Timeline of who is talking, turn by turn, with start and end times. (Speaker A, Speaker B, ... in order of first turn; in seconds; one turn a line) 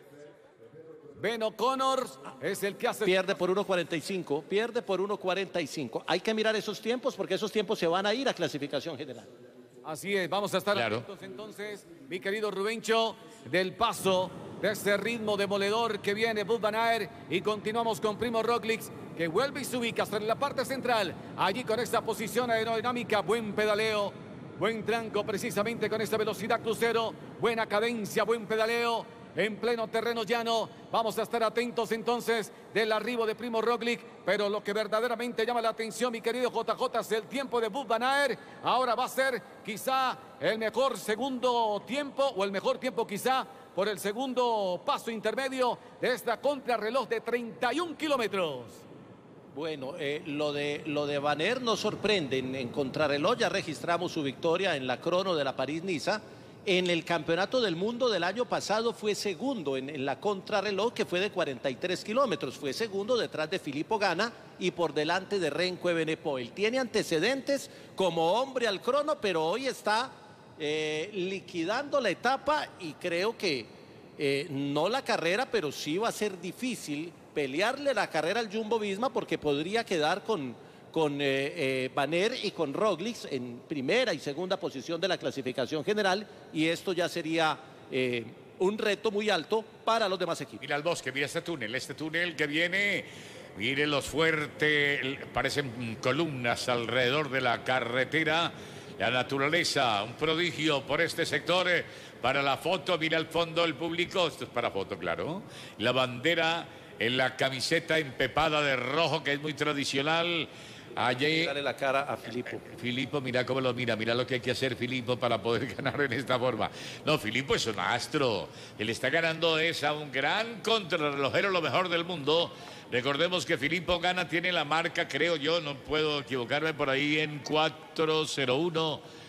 Speaker A: 1.2-3.2
Speaker B: 3.0-9.3
Speaker A: 9.8-48.8
Speaker C: 10.7-11.0
Speaker B: 49.5-90.6
Speaker C: 90.6-111.5
Speaker B: 111.2-112.7
Speaker C: 112.6-129.0